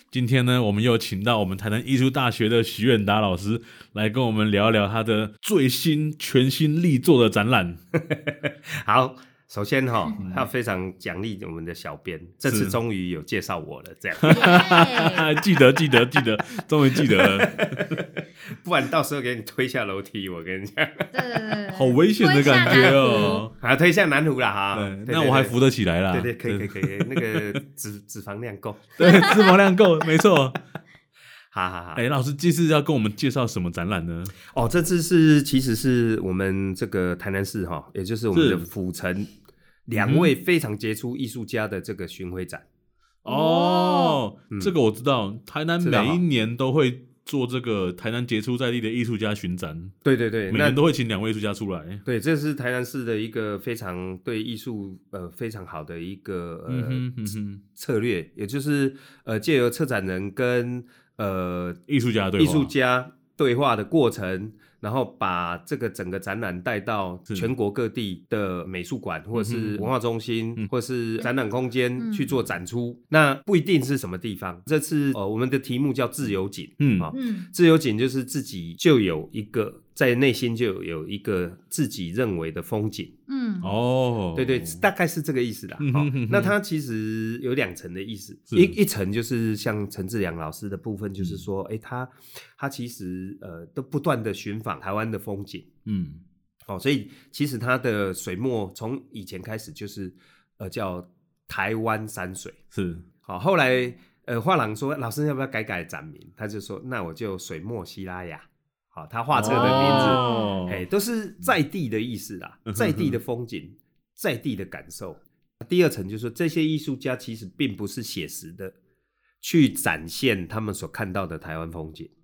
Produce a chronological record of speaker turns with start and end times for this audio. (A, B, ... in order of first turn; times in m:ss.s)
0:00.1-0:07.8 A
0:07.9-0:14.8 B
0:10.2-0:10.5 A
0:12.4-0:12.8 A
0:14.2-0:18.0 A
0:14.3-0:15.3 C
0:16.9-0:21.3 B
0:21.1-0:23.5 C
0:21.7-0:23.5 A
0:22.6-0:25.6 B
0:24.7-0:27.6 A
0:26.1-0:29.3 B
0:29.0-0:30.6 A
0:29.0-0:29.4 C
0:31.5-0:32.0 B
0:32.0-0:34.3 A
0:34.5-0:39.3 B
0:38.3-0:38.6 A
0:39.9-0:42.6 B
0:40.0-0:40.3 A
0:43.2-0:49.9 A
0:43.2-0:44.2 C
0:45.8-0:46.2 B
0:50.0-0:50.8 B
0:50.5-0:52.0 A
0:52.0-0:57.1 B
0:56.7-0:57.6 A
0:57.7-1:01.8 B
1:01.9-1:02.7 A
1:02.4-1:23.1 B
1:09.3-1:09.9 A
1:12.0-1:12.3 C
1:16.8-1:17.1 A
1:17.1-1:17.5 C
1:23.3-1:23.7 C
1:23.6-1:24.8 A
1:24.3-1:35.6 B
1:25.8-1:26.5 A
1:35.8-1:36.2 A
1:36.7-1:42.6 B
1:42.7-1:43.0 A
1:43.2-1:58.7 B
1:49.3-1:50.8 A
1:49.4-1:50.6 C
1:52.7-1:53.2 A
1:59.4-2:02.1 B